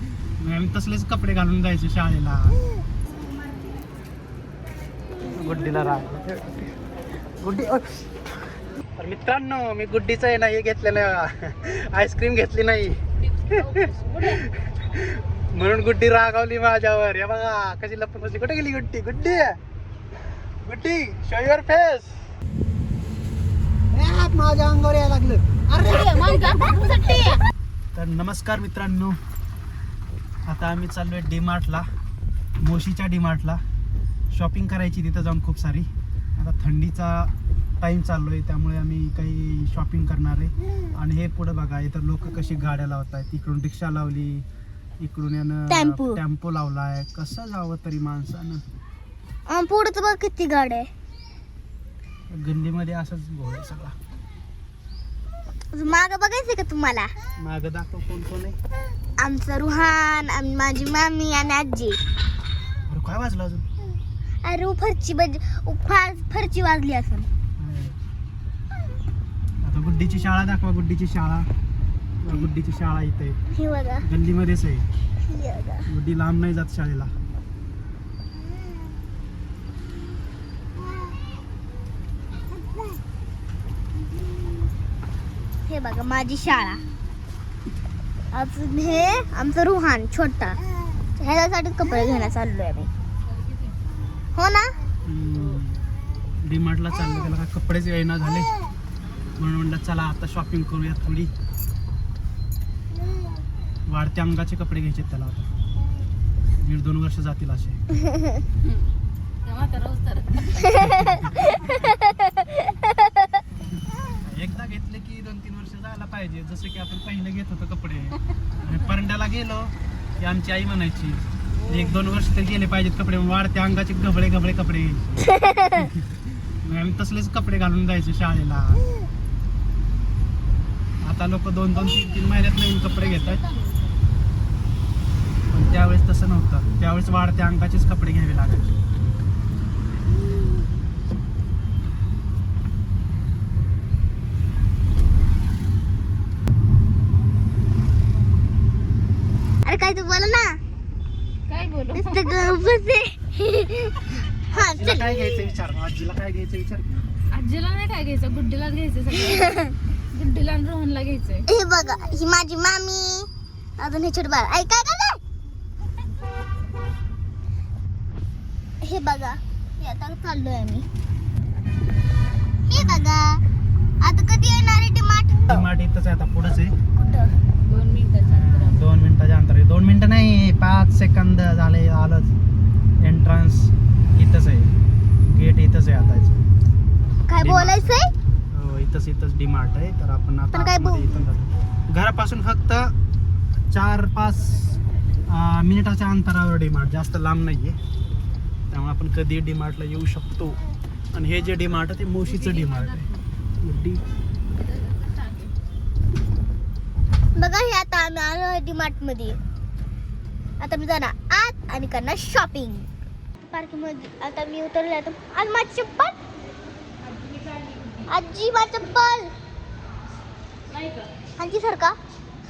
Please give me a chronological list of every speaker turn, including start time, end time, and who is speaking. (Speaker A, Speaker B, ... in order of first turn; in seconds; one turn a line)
Speaker A: 0.4-2.6
Speaker A: 5.3-6.7
Speaker A: 7.4-8.1
Speaker A: 9.0-19.6
Speaker B: 13.2-14.4
Speaker A: 20.6-22.1
Speaker A: 23.9-25.7
Speaker B: 25.8-27.4
Speaker A: 27.9-29.2
Speaker A: 30.5-31.9
Speaker A: 32.6-33.6
Speaker A: 34.3-44.5
Speaker A: 45.0-48.6
Speaker C: 45.7-46.2
Speaker C: 49.5-50.9
Speaker A: 52.3-54.0
Speaker C: 55.7-57.1
Speaker A: 57.4-58.6
Speaker C: 59.2-62.0
Speaker A: 62.9-63.6
Speaker C: 64.4-67.3
Speaker A: 67.6-68.0
Speaker A: 69.6-71.5
Speaker A: 72.2-73.4
Speaker C: 73.5-74.0
Speaker A: 74.0-74.8
Speaker C: 75.3-75.8
Speaker A: 75.9-77.1
Speaker C: 85.7-86.8
Speaker C: 88.3-90.6
Speaker C: 91.2-92.9
Speaker C: 94.3-94.7
Speaker A: 95.0-95.8
Speaker A: 96.4-98.5
Speaker A: 99.4-101.3
Speaker A: 103.9-105.5
Speaker A: 106.6-107.8
Speaker C: 108.1-108.4
Speaker B: 109.4-110.8
Speaker A: 110.7-111.8
Speaker C: 110.7-113.1
Speaker A: 114.2-125.1
Speaker C: 125.4-125.8
Speaker A: 125.7-126.0
Speaker A: 126.6-128.8
Speaker A: 131.0-133.4
Speaker B: 132.8-133.9
Speaker A: 135.5-138.7
Speaker C: 149.6-150.6
Speaker B: 151.5-152.5
Speaker C: 151.9-155.5
Speaker A: 154.6-157.0
Speaker B: 157.3-161.5
Speaker C: 159.1-159.7
Speaker C: 161.4-163.3
Speaker C: 163.8-165.2
Speaker C: 168.8-170.9
Speaker C: 172.7-173.4
Speaker A: 172.8-173.1
Speaker C: 174.0-175.4
Speaker A: 175.5-176.7
Speaker C: 176.9-177.3
Speaker B: 177.7-178.8
Speaker A: 178.2-182.3
Speaker A: 183.0-184.7
Speaker A: 185.2-186.4
Speaker C: 187.3-188.1
Speaker A: 187.4-188.0
Speaker A: 188.5-192.9
Speaker C: 190.5-191.2
Speaker A: 193.7-194.8
Speaker A: 195.3-197.8
Speaker A: 198.7-200.6
Speaker A: 201.1-203.1
Speaker B: 202.2-203.2
Speaker A: 203.6-204.0
Speaker B: 204.5-205.5
Speaker C: 207.3-209.4
Speaker C: 210.6-212.9
Speaker C: 213.5-216.2
Speaker B: 217.2-218.0
Speaker C: 218.1-219.3
Speaker B: 220.7-221.1
Speaker C: 221.4-222.0